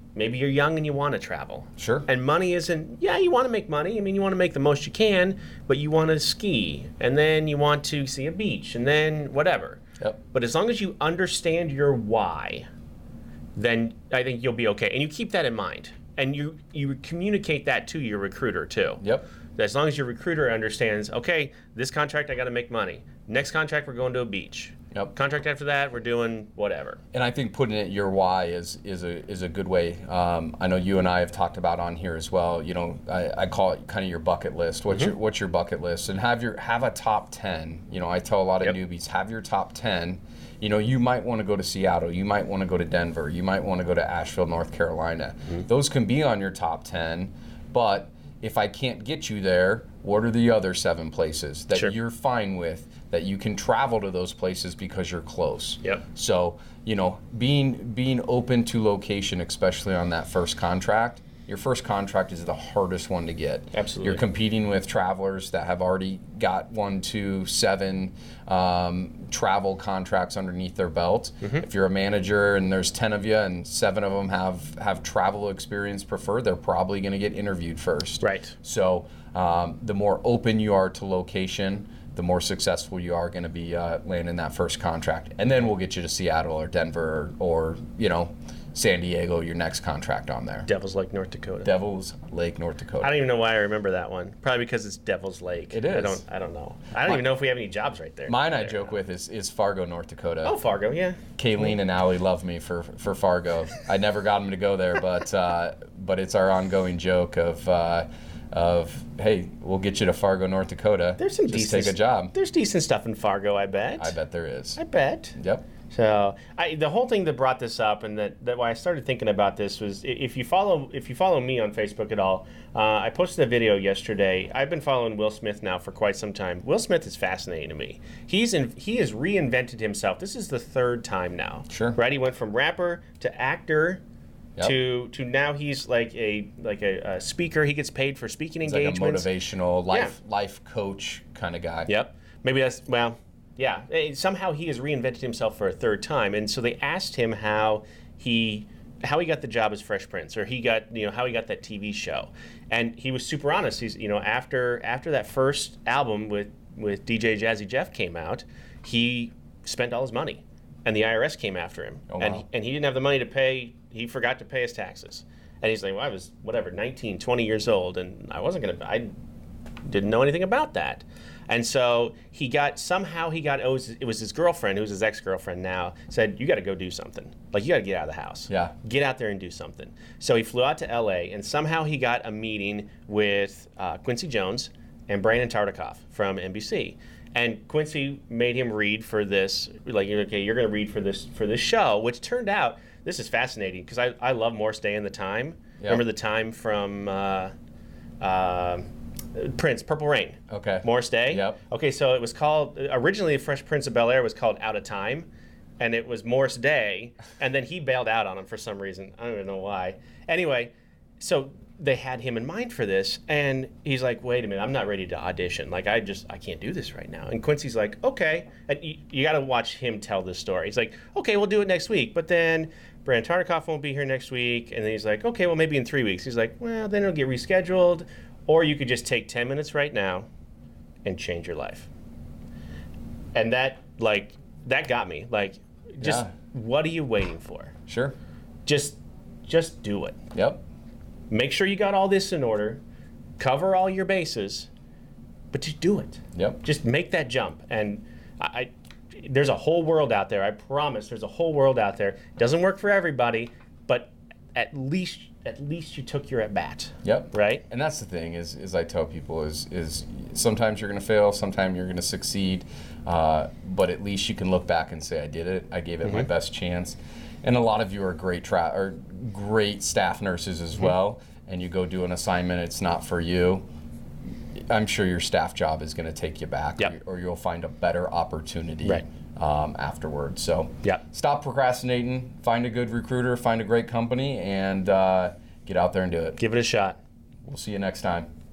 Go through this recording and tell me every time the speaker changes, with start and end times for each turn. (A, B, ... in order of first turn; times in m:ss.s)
0:00.1-0:12.6 A
0:01.8-0:02.1 B
0:13.6-0:19.0 A
0:19.0-0:19.2 B
0:19.6-0:27.0 A
0:27.1-1:30.7 B
1:03.7-1:04.2 A
1:18.2-1:18.5 A
1:30.7-1:31.7 A
1:31.6-1:33.2 B
1:33.0-1:39.0 A
1:35.7-1:36.2 B
1:38.3-1:40.6 B
1:40.4-1:41.2 A
1:41.4-1:52.3 B
1:51.2-1:54.1 A
1:54.0-1:54.8 B
1:54.8-1:55.4 A
1:55.4-1:55.6 B
1:55.9-2:14.0 A
2:11.7-2:12.0 B
2:14.6-2:19.3 A
2:18.6-2:21.9 B
2:21.9-2:49.1 A
2:42.1-2:42.4 B
2:49.8-3:17.5 A
2:58.5-2:58.7 B
3:18.2-3:25.3 A
3:20.5-3:21.6 B
3:25.8-3:50.3 A
3:51.0-3:51.9 A
3:53.3-3:57.7 A
3:56.0-3:56.3 B
3:57.9-3:58.2 B
3:58.6-4:00.2 A
4:00.3-4:00.6 B
4:01.3-4:02.8 A
4:03.4-4:04.7 A
4:05.5-4:17.6 A
4:06.3-4:06.6 B
4:17.0-4:33.6 B
4:26.0-4:26.3 A
4:34.6-4:46.4 B
4:46.4-4:47.0 A
4:47.4-4:48.3 B